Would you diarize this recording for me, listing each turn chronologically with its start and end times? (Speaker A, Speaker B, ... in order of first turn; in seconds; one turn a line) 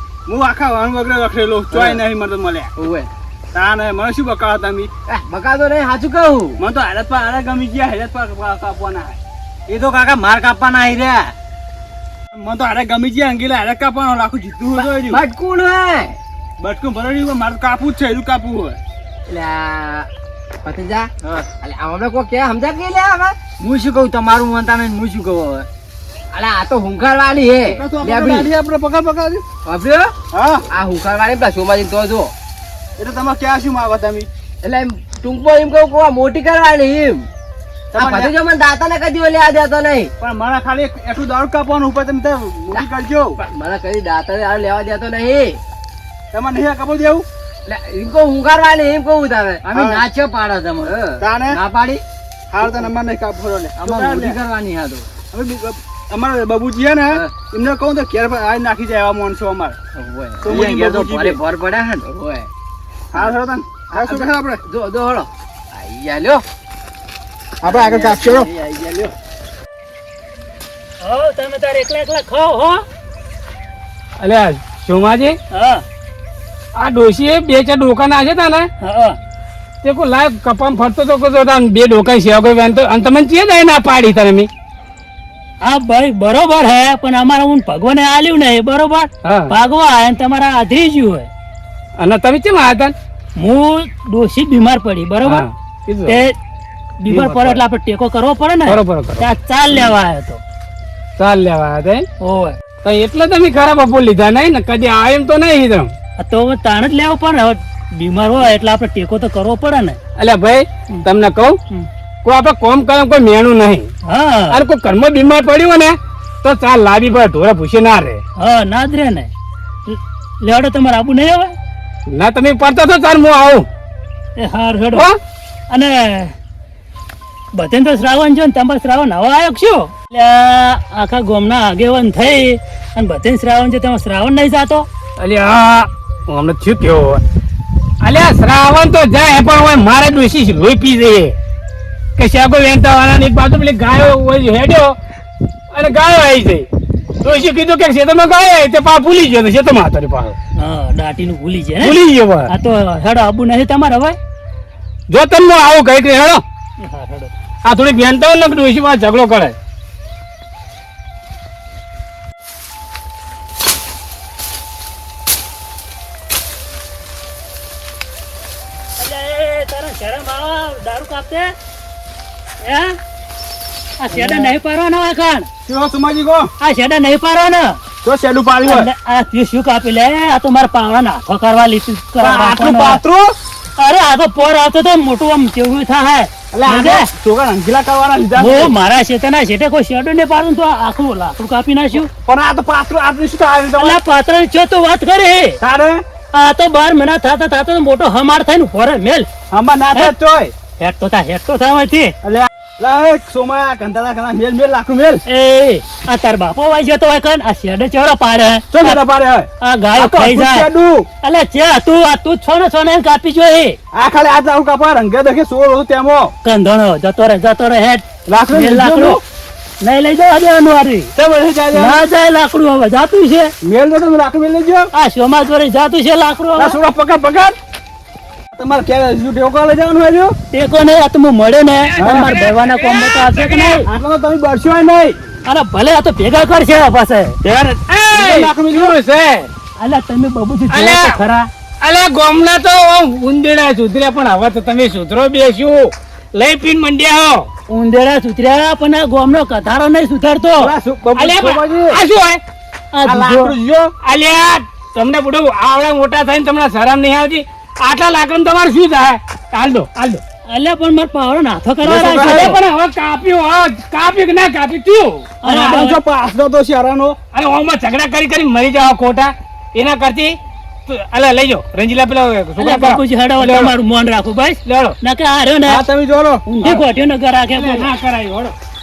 Speaker A: 0.3-2.7
Speaker B: 1.7-2.0
Speaker B: 2.8-3.1
Speaker A: 3.5-4.9
Speaker B: 5.1-6.6
Speaker A: 6.6-9.2
Speaker B: 9.7-11.3
Speaker A: 12.4-15.2
Speaker B: 14.8-16.2
Speaker A: 16.6-18.8
Speaker B: 19.3-20.1
Speaker B: 20.6-21.1
Speaker B: 21.6-23.4
Speaker C: 23.6-25.7
Speaker B: 26.3-28.5
Speaker A: 27.6-29.4
Speaker B: 29.6-30.1
Speaker A: 30.3-30.6
Speaker B: 30.7-32.3
Speaker A: 33.0-34.3
Speaker B: 34.6-37.2
Speaker B: 37.9-40.1
Speaker A: 38.0-38.3
Speaker A: 40.2-43.3
Speaker B: 42.7-45.6
Speaker A: 46.3-47.2
Speaker B: 47.7-49.6
Speaker C: 49.6-52.0
Speaker A: 49.7-50.0
Speaker B: 50.9-51.2
Speaker A: 51.2-51.6
Speaker A: 52.5-54.4
Speaker C: 52.6-52.9
Speaker C: 53.7-55.1
Speaker A: 55.3-59.8
Speaker B: 60.0-60.7
Speaker A: 60.5-61.4
Speaker C: 60.5-62.0
Speaker B: 62.0-62.5
Speaker A: 63.1-64.6
Speaker B: 64.0-66.4
Speaker A: 67.6-68.5
Speaker C: 67.7-69.1
Speaker B: 67.7-68.1
Speaker D: 71.0-72.8
Speaker E: 74.2-75.4
Speaker D: 75.5-75.8
Speaker E: 76.8-78.7
Speaker D: 78.8-79.2
Speaker E: 79.8-84.5
Speaker D: 85.6-91.3
Speaker E: 89.2-89.5
Speaker E: 92.0-92.9
Speaker D: 93.4-95.5
Speaker E: 95.2-96.2
Speaker D: 96.1-96.3
Speaker D: 97.0-100.4
Speaker E: 97.1-97.6
Speaker E: 98.7-99.2
Speaker E: 101.2-102.0
Speaker D: 102.2-102.6
Speaker E: 102.8-105.9
Speaker D: 106.2-110.0
Speaker E: 110.2-111.6
Speaker E: 112.2-113.9
Speaker D: 114.1-114.6
Speaker E: 114.5-118.2
Speaker D: 118.4-119.3
Speaker D: 119.9-121.5
Speaker E: 122.1-123.7
Speaker D: 124.4-125.1
Speaker D: 125.7-126.3
Speaker D: 127.5-134.9
Speaker E: 135.2-137.2
Speaker E: 138.0-141.3
Speaker E: 142.2-144.9
Speaker E: 145.7-146.7
Speaker E: 147.2-150.4
Speaker D: 150.6-154.2
Speaker E: 151.8-152.5
Speaker E: 155.1-156.4
Speaker D: 156.8-157.3
Speaker E: 157.7-159.6
Speaker D: 169.0-171.5
Speaker D: 172.6-173.0
Speaker D: 174.0-175.5
Speaker A: 174.1-174.5
Speaker A: 175.7-176.5
Speaker D: 176.6-177.8
Speaker A: 178.0-178.9
Speaker D: 178.7-183.0
Speaker A: 182.2-183.3
Speaker D: 183.8-187.1
Speaker A: 186.5-188.7
Speaker D: 188.4-192.1
Speaker A: 191.9-194.0
Speaker D: 193.8-195.6
Speaker A: 195.6-196.0
Speaker D: 196.3-199.3
Speaker A: 199.5-200.5
Speaker D: 200.8-202.2
Speaker A: 202.2-205.2
Speaker D: 205.3-209.0
Speaker A: 208.7-209.5
Speaker D: 209.6-210.7
Speaker A: 210.0-211.1
Speaker D: 211.2-213.8
Speaker A: 213.9-216.3
Speaker D: 216.4-219.2
Speaker A: 218.3-219.2
Speaker D: 219.8-221.1
Speaker A: 221.2-222.0
Speaker D: 221.7-223.5
Speaker A: 223.6-224.9
Speaker D: 224.9-226.8
Speaker A: 226.6-227.5
Speaker A: 228.6-230.3
Speaker D: 230.5-233.9
Speaker E: 232.0-233.7
Speaker A: 233.9-235.2
Speaker D: 235.5-237.4
Speaker A: 237.5-238.9
Speaker E: 237.9-239.5
Speaker D: 239.8-241.5
Speaker E: 240.7-241.2
Speaker E: 241.8-247.5
Speaker D: 247.7-250.8
Speaker A: 250.6-252.0
Speaker E: 251.2-252.4
Speaker D: 252.9-253.6
Speaker A: 253.1-253.9
Speaker E: 254.0-260.2
Speaker D: 260.5-262.6
Speaker E: 261.9-265.4
Speaker A: 262.0-262.3
Speaker D: 265.4-266.0
Speaker A: 265.5-267.2
Speaker E: 267.3-273.7
Speaker D: 272.6-275.8
Speaker E: 274.6-274.9
Speaker A: 275.7-276.4
Speaker D: 276.5-277.9
Speaker E: 277.5-278.6